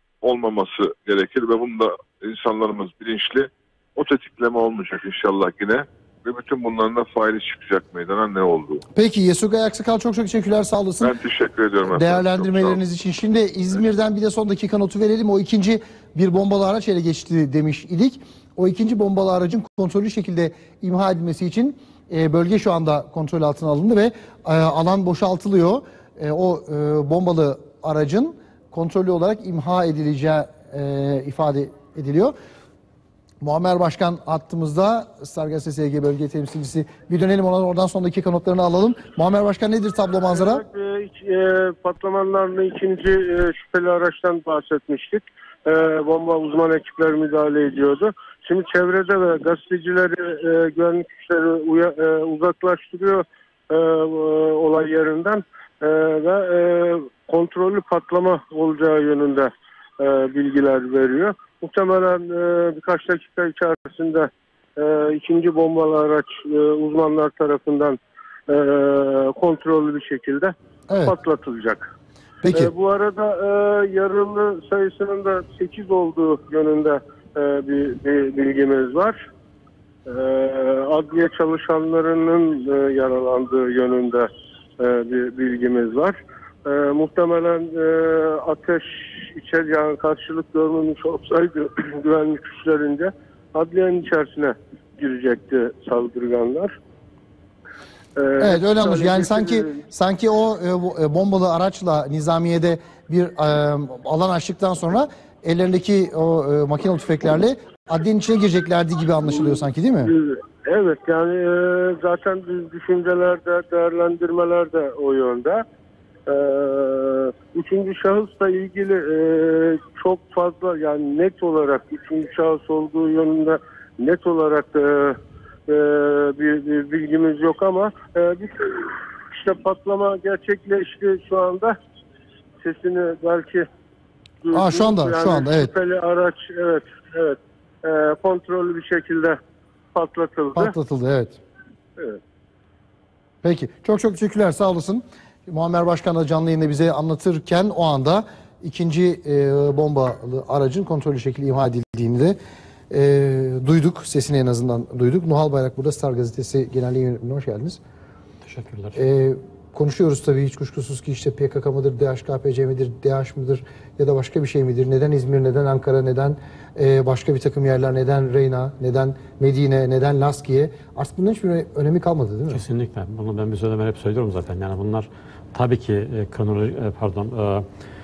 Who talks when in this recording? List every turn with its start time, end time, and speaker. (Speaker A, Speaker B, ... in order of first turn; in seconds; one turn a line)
Speaker A: 0.2-8.8
Speaker B: 8.9-11.1
Speaker A: 11.0-12.8
Speaker B: 11.9-32.3
Speaker B: 33.4-40.6
Speaker C: 40.3-71.9
Speaker B: 70.9-71.1
Speaker B: 72.4-72.7
Speaker C: 72.5-79.2
Speaker C: 80.1-84.3
Speaker C: 84.8-96.7
Speaker C: 98.2-99.7
Speaker B: 98.4-110.1
Speaker C: 110.0-115.6
Speaker C: 116.3-125.2
Speaker C: 125.7-131.8
Speaker C: 132.6-133.7
Speaker C: 134.4-139.4
Speaker B: 134.5-135.7
Speaker C: 139.9-140.7
Speaker B: 140.5-141.4
Speaker B: 143.4-152.4
Speaker B: 152.9-157.8
Speaker D: 158.4-159.0
Speaker B: 158.9-172.6
Speaker D: 172.5-177.7